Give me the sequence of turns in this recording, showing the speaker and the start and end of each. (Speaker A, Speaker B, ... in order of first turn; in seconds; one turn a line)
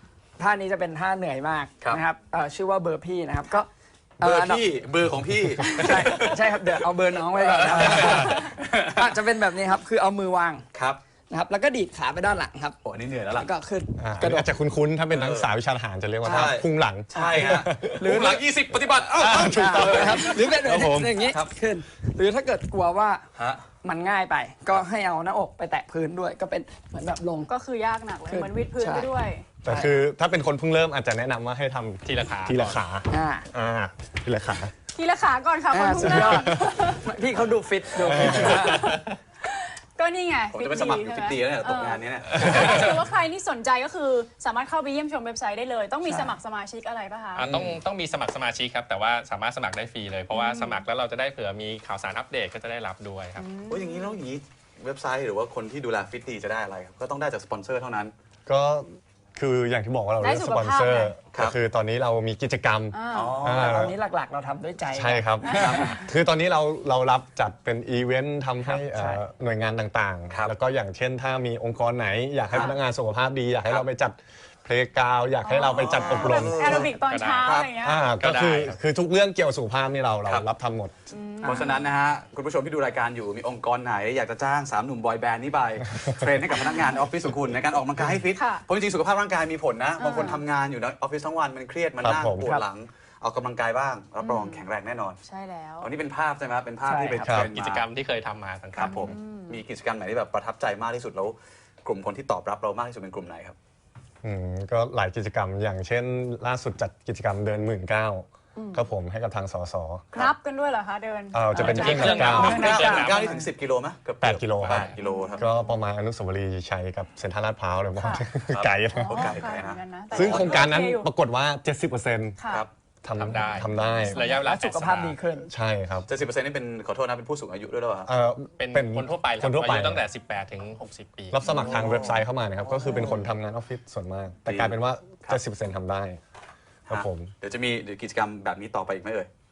Speaker A: 0.4-4.6
Speaker B: 4.2-9.2
Speaker A: 5.6-10.6
Speaker B: 10.7-11.0
Speaker A: 11.3-12.8
Speaker B: 12.8-13.5
Speaker A: 13.3-14.5
Speaker C: 14.0-18.4
Speaker B: 15.1-15.5
Speaker A: 16.2-16.6
Speaker B: 16.2-21.5
Speaker A: 17.1-18.4
Speaker C: 19.1-21.0
Speaker A: 19.4-23.2
Speaker B: 23.4-23.6
Speaker A: 23.8-27.5
Speaker D: 27.5-29.4
Speaker A: 28.3-29.1
Speaker C: 29.6-34.7
Speaker A: 29.6-29.9
Speaker E: 32.0-32.8
Speaker A: 33.1-33.5
Speaker D: 34.9-37.1
Speaker A: 35.7-38.9
Speaker C: 38.1-38.8
Speaker D: 38.4-47.4
Speaker B: 40.5-42.9
Speaker E: 42.3-42.9
Speaker A: 46.1-46.3
Speaker E: 47.3-53.4
Speaker B: 47.4-47.8
Speaker D: 50.3-50.8
Speaker D: 53.4-54.2
Speaker B: 53.7-58.1
Speaker C: 58.5-63.9
Speaker D: 60.2-61.1
Speaker D: 62.9-63.4
Speaker B: 63.1-63.9
Speaker A: 63.5-65.9
Speaker C: 64.9-76.9
Speaker B: 65.5-66.0
Speaker A: 68.7-69.2
Speaker D: 75.4-78.0
Speaker B: 75.7-77.7
Speaker E: 76.9-78.8
Speaker C: 77.8-80.9
Speaker D: 81.1-81.9
Speaker B: 81.4-95.2
Speaker D: 88.3-88.7
Speaker D: 90.0-90.4
Speaker C: 92.0-92.6
Speaker D: 94.2-94.6
Speaker D: 95.2-95.9
Speaker B: 95.8-97.8
Speaker A: 96.8-97.3
Speaker C: 97.2-97.5
Speaker E: 97.3-99.1
Speaker B: 98.7-103.6
Speaker D: 98.8-99.6
Speaker C: 104.2-110.2
Speaker D: 108.5-108.8
Speaker D: 110.1-113.3
Speaker C: 111.3-112.8
Speaker E: 111.5-113.3
Speaker B: 111.9-115.4
Speaker C: 114.2-119.4
Speaker D: 115.0-115.5
Speaker D: 118.0-118.2
Speaker B: 118.4-120.8
Speaker D: 119.0-121.1
Speaker C: 120.1-122.4
Speaker D: 122.4-122.7
Speaker C: 123.0-124.2
Speaker E: 123.2-125.2
Speaker A: 124.2-125.5
Speaker C: 125.4-126.1
Speaker B: 126.1-128.1
Speaker C: 128.1-130.1
Speaker E: 128.6-131.4
Speaker C: 131.3-136.2
Speaker B: 131.5-133.2
Speaker B: 134.4-135.4
Speaker C: 136.9-137.3
Speaker B: 136.9-139.3